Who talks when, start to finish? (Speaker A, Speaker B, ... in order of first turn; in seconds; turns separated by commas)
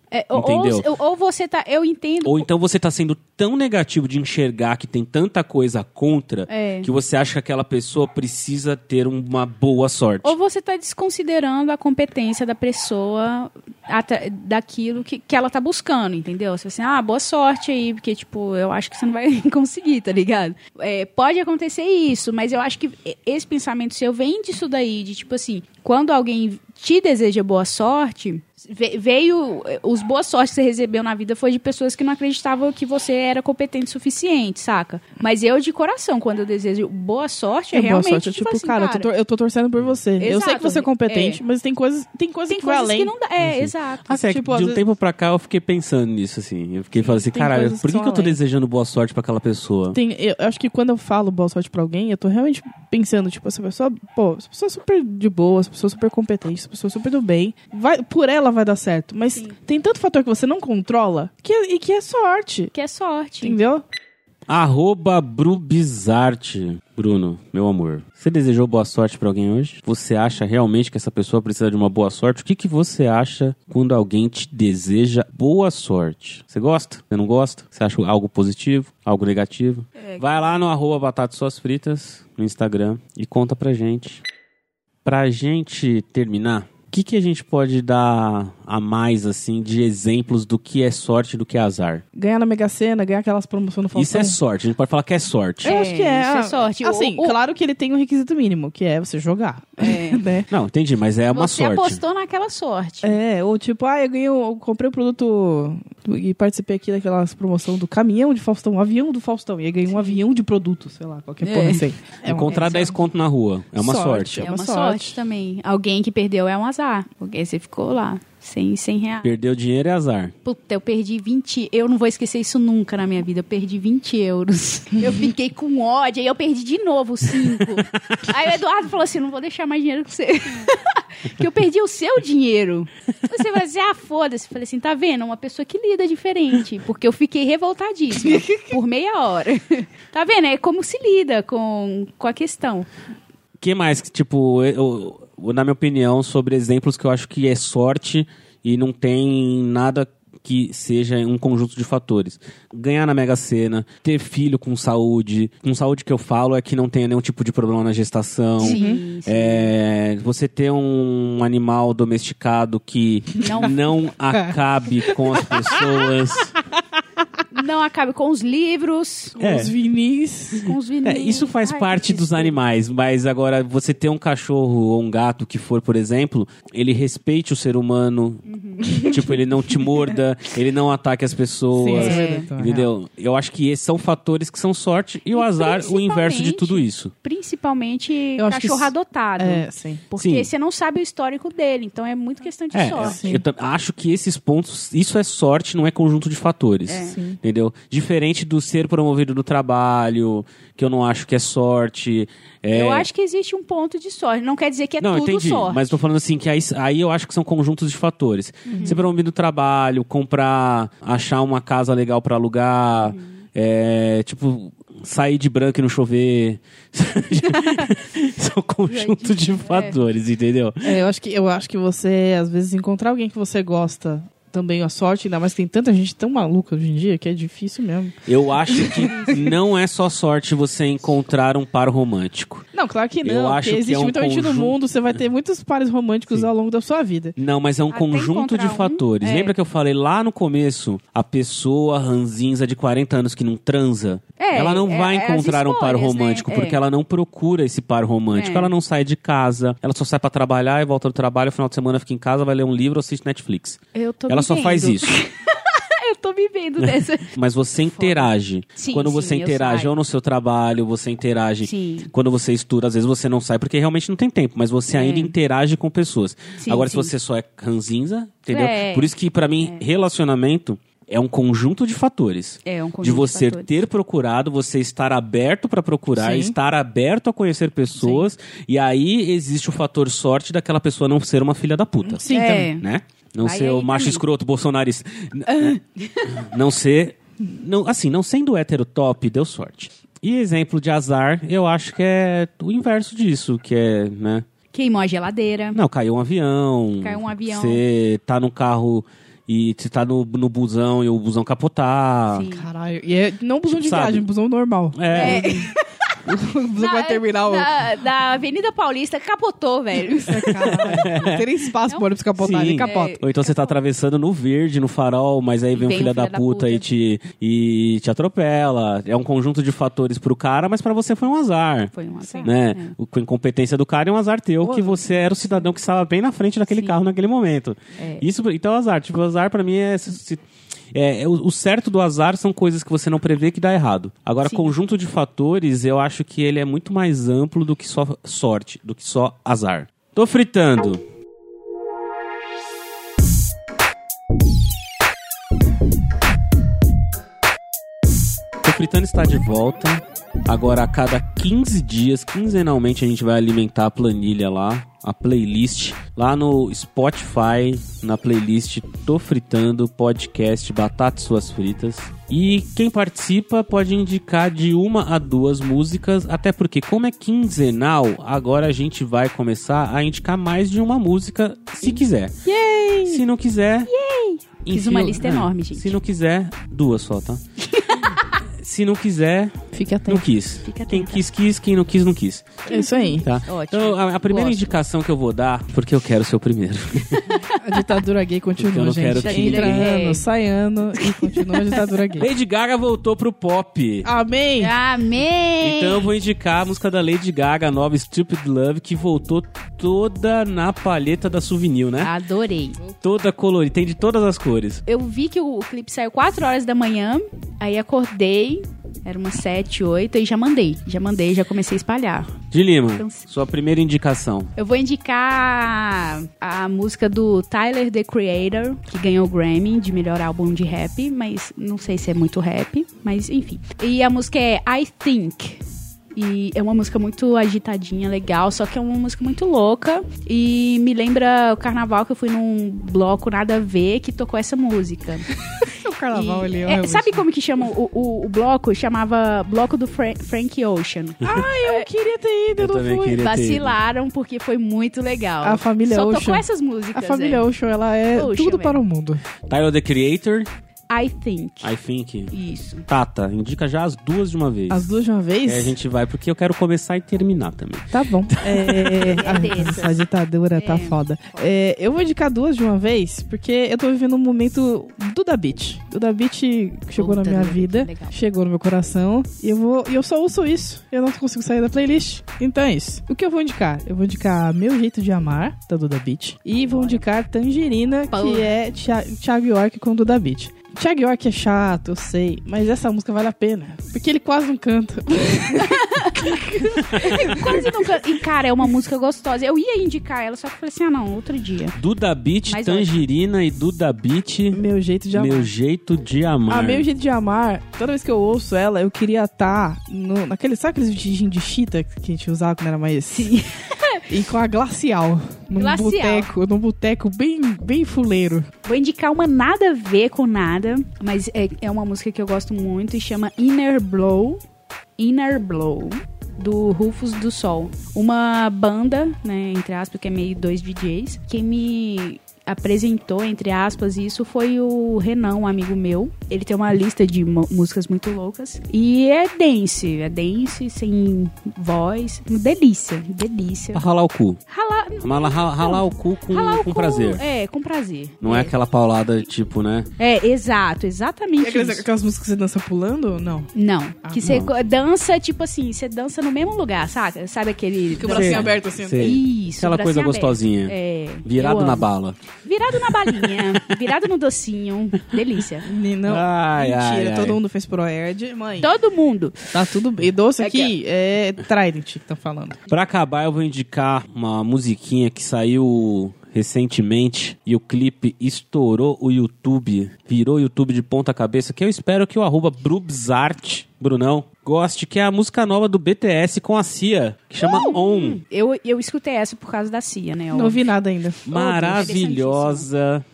Speaker A: 0.1-2.5, Speaker B: 0.3-0.9, Speaker B: 2.2-10.3, Speaker A: 6.5-6.9, Speaker A: 10.2-39.1, Speaker C: 37.7-43.1, Speaker A: 40.2-41.4, Speaker A: 42.5-44.1, Speaker B: 43.4-50.0, Speaker C: 44.2-44.8, Speaker C: 47.0-48.4, Speaker C: 49.9-62.7, Speaker A: 62.7-63.6, Speaker C: 63.4-63.8, Speaker B: 64.5-84.2, Speaker A: 80.0-80.5, Speaker B: 85.0-92.0, Speaker C: 92.1-94.4, Speaker B: 93.9-95.8, Speaker A: 95.6-97.3, Speaker C: 95.6-100.5, Speaker A: 99.8-100.2, Speaker B: 100.5-102.0, Speaker A: 101.3-103.2, Speaker C: 103.0-112.9, Speaker A: 109.9-110.2, Speaker A: 111.4-111.9, Speaker B: 112.2-114.4, Speaker A: 112.4-113.0, Speaker C: 113.8-115.2, Speaker A: 114.4-119.3, Speaker B: 119.2-120.3, Speaker A: 120.4-142.9, Speaker B: 127.6-128.3, Speaker B: 143.6-166.5, Speaker A: 158.6-159.7, Speaker C: 158.6-159.0, Speaker A: 163.4-163.9, Speaker C: 165.1-166.1, Speaker A: 167.5-169.4, Speaker C: 169.4-170.7, Speaker B: 169.4-169.7, Speaker A: 170.5-172.6, Speaker B: 171.0-178.4, Speaker A: 178.4-179.3, Speaker C: 178.8-179.2, Speaker B: 179.0-187.1, Speaker C: 181.7-182.9, Speaker A: 181.9-182.5, Speaker A: 185.3-193.2, Speaker C: 188.4-190.1, Speaker B: 190.2-190.5, Speaker B: 192.7-203.1, Speaker C: 192.9-193.4, Speaker A: 196.9-197.2, Speaker A: 202.7-205.9, Speaker B: 205.0-220.9, Speaker A: 208.7-209.0, Speaker A: 213.0-213.3, Speaker A: 218.9-220.0, Speaker C: 220.8-229.5, Speaker B: 228.2-232.7, Speaker A: 228.8-229.5, Speaker C: 232.7-237.3, Speaker B: 233.2-234.8, Speaker B: 237.3-255.2, Speaker A: 237.9-239.5, Speaker A: 244.4-246.8, Speaker A: 248.3-248.7, Speaker A: 253.9-259.9, Speaker B: 256.8-294.5, Speaker A: 261.6-262.1, Speaker A: 264.9-265.4, Speaker A: 266.6-267.1, Speaker A: 268.5-269.8, Speaker A: 272.6-273.8, Speaker C: 276.1-276.6, Speaker A: 278.0-278.2, Speaker C: 282.1-282.7, Speaker A: 282.3-282.8, Speaker A: 283.4-284.2, Speaker A: 285.5-286.3, Speaker A: 294.7-295.8, Speaker B: 295.7-302.4, Speaker A: 297.0-297.8, Speaker A: 302.3-302.7, Speaker C: 302.5-305.6, Speaker B: 303.8-304.2, Speaker B: 304.9-305.7, Speaker A: 305.1-306.1, Speaker C: 306.2-307.7, Speaker A: 306.8-312.1, Speaker C: 310.3-313.2, Speaker B: 310.6-311.4, Speaker B: 312.4-321.9, Speaker A: 312.8-313.7, Speaker A: 315.7-316.9, Speaker A: 321.9-322.9, Speaker C: 322.2-322.5, Speaker B: 322.4-341.0, Speaker C: 324.6-325.3, Speaker A: 326.7-327.0, Speaker A: 328.0-328.2, Speaker A: 334.4-334.7, Speaker B: 348.6-372.3, Speaker C: 372.4-373.2, Speaker B: 373.1-373.9, Speaker A: 373.9-376.0, Speaker B: 374.6-377.4, Speaker A: 377.7-378.3, Speaker B: 378.6-382.6, Speaker C: 379.7-380.2, Speaker A: 380.6-381.2, Speaker C: 382.7-383.3, Speaker A: 382.7-384.8, Speaker B: 383.2-387.2, Speaker A: 387.1-388.0, Speaker C: 387.5-392.3, Speaker B: 388.6-389.9, Speaker A: 389.2-390.2, Speaker B: 392.1-394.1, Speaker C: 394.0-394.7, Speaker A: 394.6-396.1, Speaker B: 395.6-402.1, Speaker A: 402.0-402.8, Speaker B: 403.0-404.8, Speaker A: 404.9-412.4, Speaker B: 412.5-414.5, Speaker A: 413.0-413.2, Speaker A: 414.6-425.6, Speaker A: 426.1-441.9, Speaker C: 435.6-437.2, Speaker C: 441.2-443.2, Speaker B: 442.6-443.7, Speaker A: 443.1-447.5, Speaker C: 445.4-449.2, Speaker A: 448.1-448.8, Speaker B: 449.5-450.5, Speaker A: 450.9-451.7, Speaker B: 451.6-452.3, Speaker A: 452.3-452.9, Speaker B: 452.9-454.9, Speaker C: 454.7-455.8, Speaker B: 455.4-458.8, Speaker C: 457.9-488.0, Speaker A: 458.9-460.0, Speaker A: 460.5-461.4, Speaker A: 466.9-468.1, Speaker A: 476.6-477.0, Speaker A: 478.1-478.5, Speaker A: 485.5-491.8, Speaker B: 491.8-496.9, Speaker A: 492.5-493.0, Speaker C: 494.5-495.5, Speaker C: 496.5-503.3, Speaker A: 503.1-504.0, Speaker C: 504.1-508.5, Speaker A: 505.6-506.3, Speaker A: 508.6-514.4, Speaker A: 515.0-533.8, Speaker B: 533.7-534.4, Speaker A: 534.5-538.5, Speaker B: 535.0-537.2, Speaker B: 538.2-539.9, Speaker A: 540.0-541.9, Speaker C: 541.4-543.5, Speaker A: 543.5-551.9, Speaker C: 544.0-544.5, Speaker B: 544.2-544.5, Speaker C: 548.0-549.2, Speaker B: 548.0-552.2, Speaker A: 552.4-555.7, Speaker B: 552.8-553.6, Speaker C: 555.6-558.7, Speaker B: 556.1-557.4, Speaker A: 558.6-559.5, Speaker C: 559.5-562.6, Speaker A: 560.4-560.7, Speaker B: 562.7-578.2, Speaker A: 577.4-580.6, Speaker C: 580.3-581.9, Speaker B: 581.3-583.0, Speaker A: 581.3-582.7